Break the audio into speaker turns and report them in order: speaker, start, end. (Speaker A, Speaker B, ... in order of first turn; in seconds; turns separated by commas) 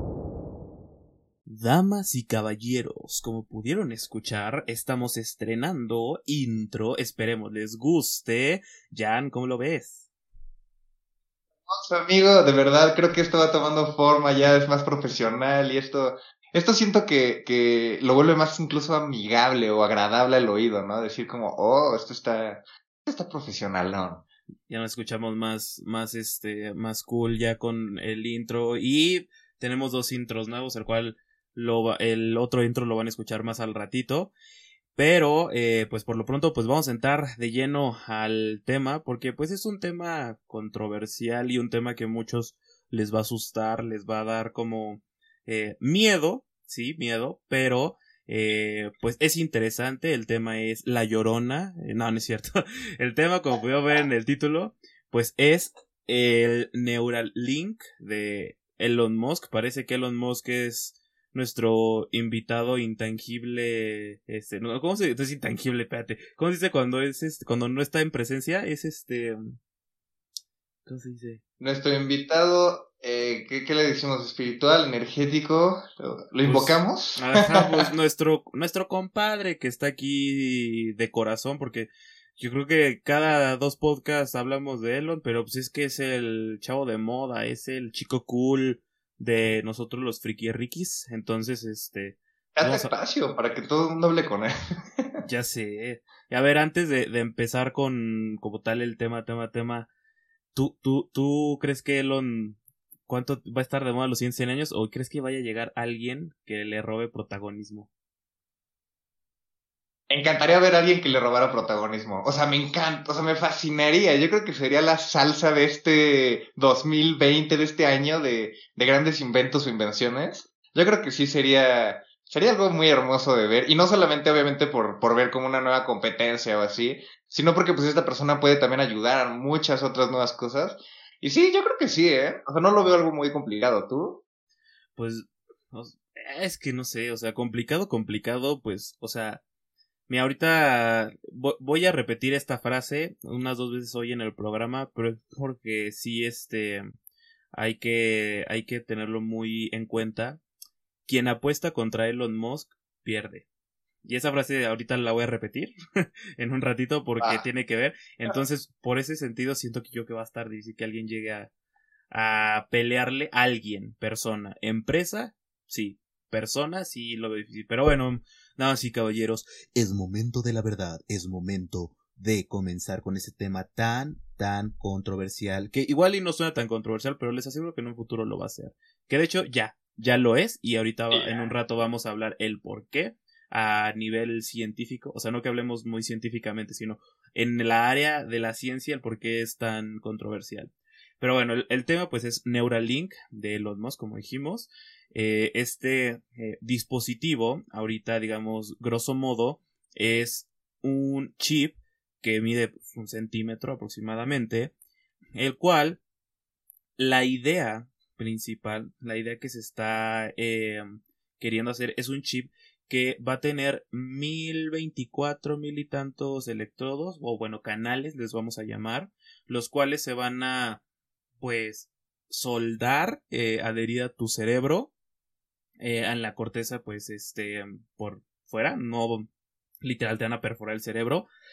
Speaker A: 1.4-10.1, Speaker B: 11.7-24.2, Speaker A: 24.7-34.3, Speaker A: 35.0-69.5, Speaker A: 70.8-71.4, Speaker B: 71.6-77.8, Speaker A: 76.4-92.9, Speaker B: 92.5-95.1, Speaker A: 95.2-99.9, Speaker A: 100.5-107.9, Speaker B: 110.1-134.2, Speaker A: 134.9-139.4, Speaker A: 140.1-146.8, Speaker A: 147.5-150.4, Speaker A: 151.1-153.4, Speaker A: 154.0-161.5, Speaker B: 157.2-157.4, Speaker A: 162.1-169.5, Speaker C: 169.7-175.6, Speaker A: 175.6-204.7, Speaker B: 181.1-181.4, Speaker A: 205.3-206.0, Speaker A: 207.0-210.9, Speaker A: 211.4-220.8, Speaker A: 221.4-224.9, Speaker A: 225.8-229.3, Speaker A: 229.8-231.3